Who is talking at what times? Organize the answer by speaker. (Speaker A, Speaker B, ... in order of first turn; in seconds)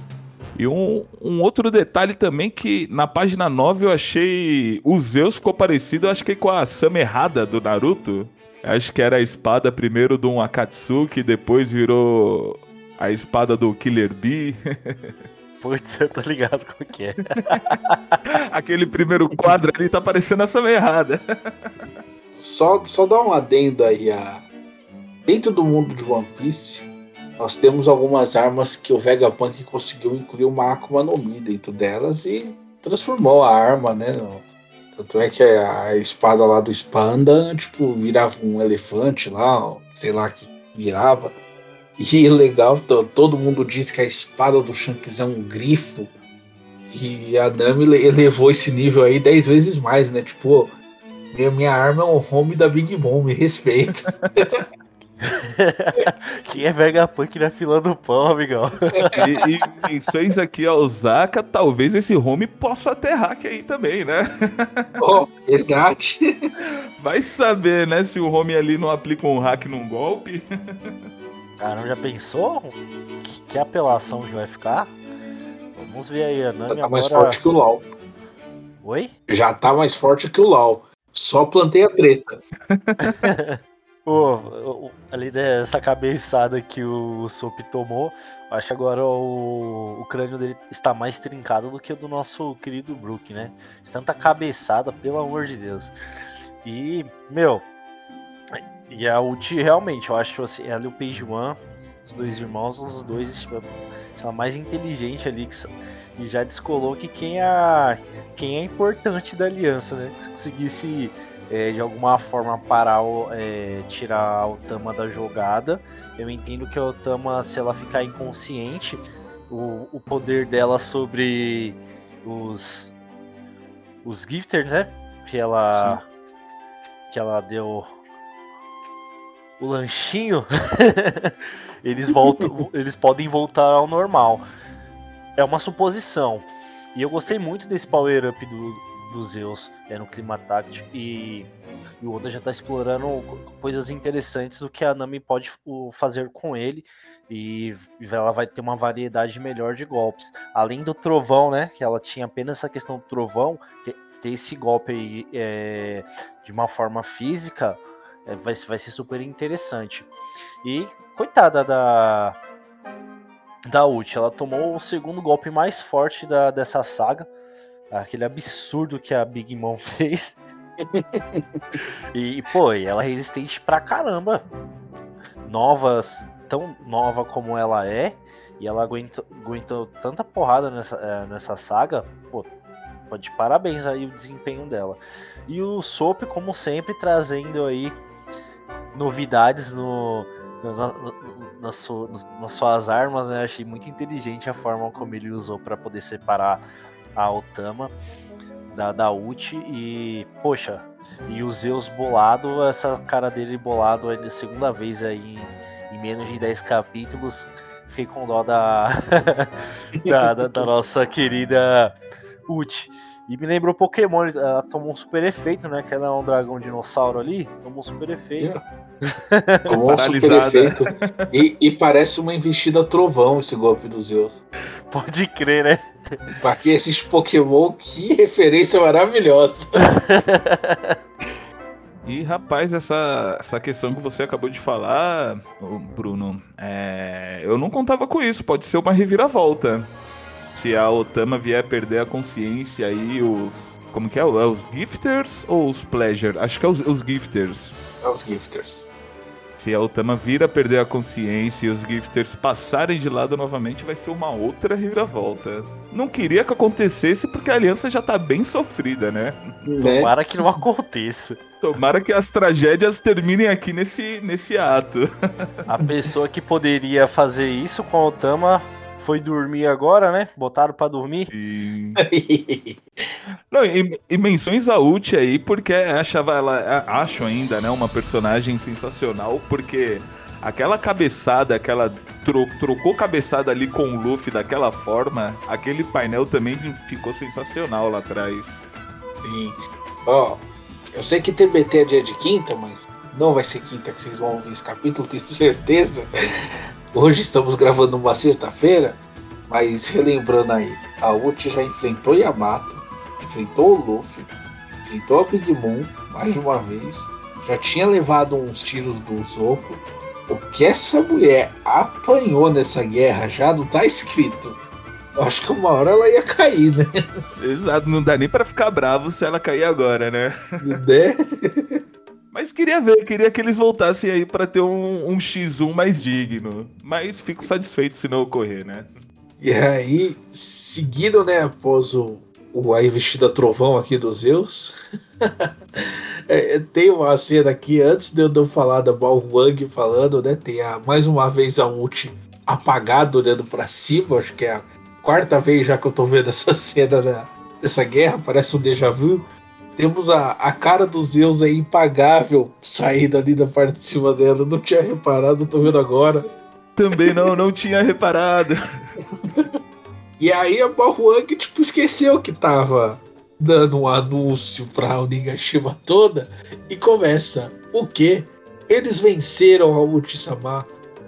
Speaker A: 0.6-15.2, 18.3-21.9, 59.2-65.0, 67.0-71.0, 82.7-83.2, 219.9-221.3, 232.1-239.8, 240.6-247.8, 249.6-259.4, 261.6-265.1, 271.3-272.0, 273.5-288.7, 317.4-320.3, 322.3-328.9, 356.8-358.6
Speaker B: 15.6-18.2, 55.2-59.2, 71.6-75.0, 75.8-77.4, 78.8-79.1, 83.0-95.9, 96.6-97.7, 98.5-122.9, 124.0-126.0, 127.1-127.9, 129.6-131.3, 131.8-134.5, 135.4-141.5, 142.0-160.1, 160.6-162.4, 163.7-167.3, 167.9-170.4, 172.1-174.5, 175.4-182.5, 183.1-188.0, 188.9-196.6, 197.2-197.9, 198.7-209.5, 210.1-212.0, 212.5-218.6, 219.1-219.8, 224.9-225.9, 229.8-231.0, 259.8-261.4, 265.7-271.3
Speaker C: 22.4-24.4, 25.2-41.4, 42.0-46.1, 46.9-50.7, 51.3-54.6, 65.0-66.2, 76.7-77.9, 79.3-82.3, 170.8-171.6, 210.0-210.7, 219.7-224.4, 226.3-229.8, 248.0-248.9, 259.6-260.1, 272.1-272.8, 289.2-296.1, 296.9-314.6, 315.1-316.9, 320.6-321.8, 329.4-335.5, 336.3-356.3, 357.0-357.3, 360.2-370.7